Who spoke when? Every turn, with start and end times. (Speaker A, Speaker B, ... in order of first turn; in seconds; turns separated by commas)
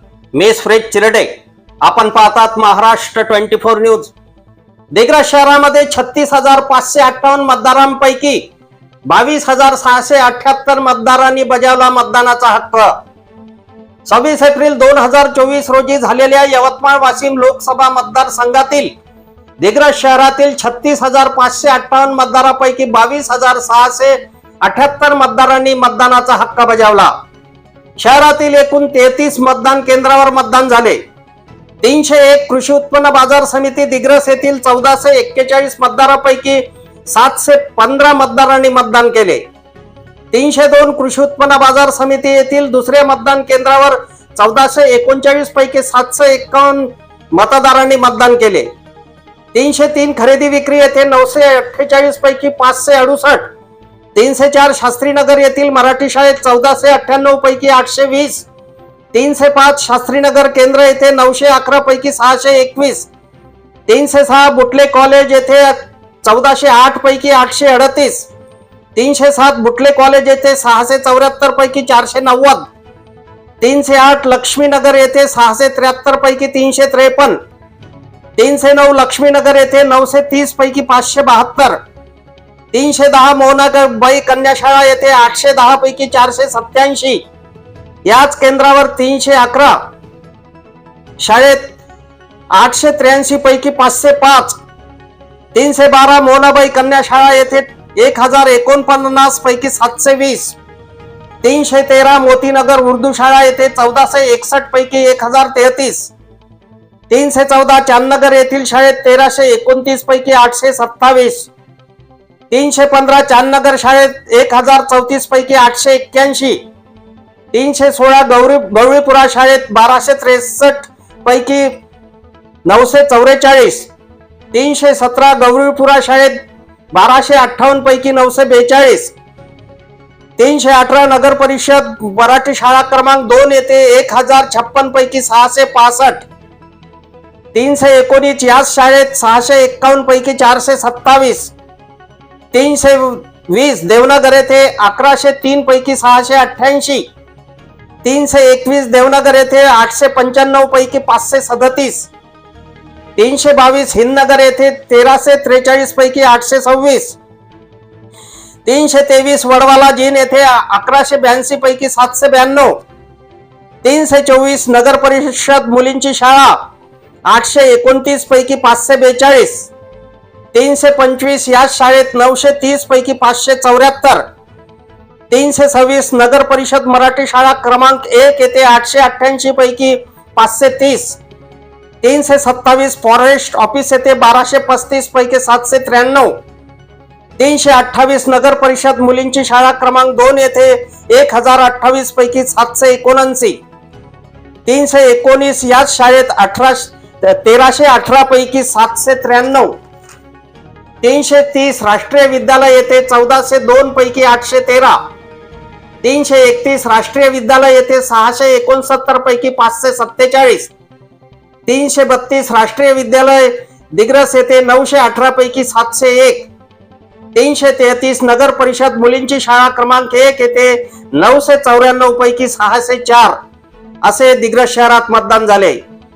Speaker A: 0.3-1.3, Speaker A: 1.8-4.1, Speaker A: 4.9-8.4, Speaker A: 9.1-12.9, Speaker A: 14.1-18.9, Speaker A: 19.6-27.1, Speaker A: 28.0-31.0, Speaker A: 31.8-39.4, Speaker A: 40.3-48.7, Speaker A: 49.5-53.5, Speaker A: 54.1-58.5, Speaker A: 59.1-63.1, Speaker A: 63.9-68.3, Speaker A: 69.0-72.7, Speaker A: 73.6-77.4, Speaker A: 78.4-81.8, Speaker A: 82.7-87.2, Speaker A: 88.0-89.8, Speaker A: 91.2-91.7, Speaker A: 92.5-94.6, Speaker A: 95.5-100.6, Speaker A: 101.4-106.1, Speaker A: 107.1-111.5, Speaker A: 112.5-116.6, Speaker A: 117.5-121.8, Speaker A: 122.7-123.9, Speaker A: 124.5-126.4, Speaker A: 126.9-129.1, Speaker A: 130.4-136.3, Speaker A: 137.5-141.5, Speaker A: 142.5-147.1, Speaker A: 148.0-152.1, Speaker A: 153.2-157.2, Speaker A: 158.7-162.7, Speaker A: 163.8-166.6, Speaker A: 167.3-169.7, Speaker A: 170.5-174.2, Speaker A: 175.3-181.2, Speaker A: 182.0-186.3, Speaker A: 187.4-193.6, Speaker A: 194.7-199.7, Speaker A: 201.0-205.0, Speaker A: 206.0-210.7, Speaker A: 211.7-216.5, Speaker A: 217.3-223.4, Speaker A: 224.0-225.8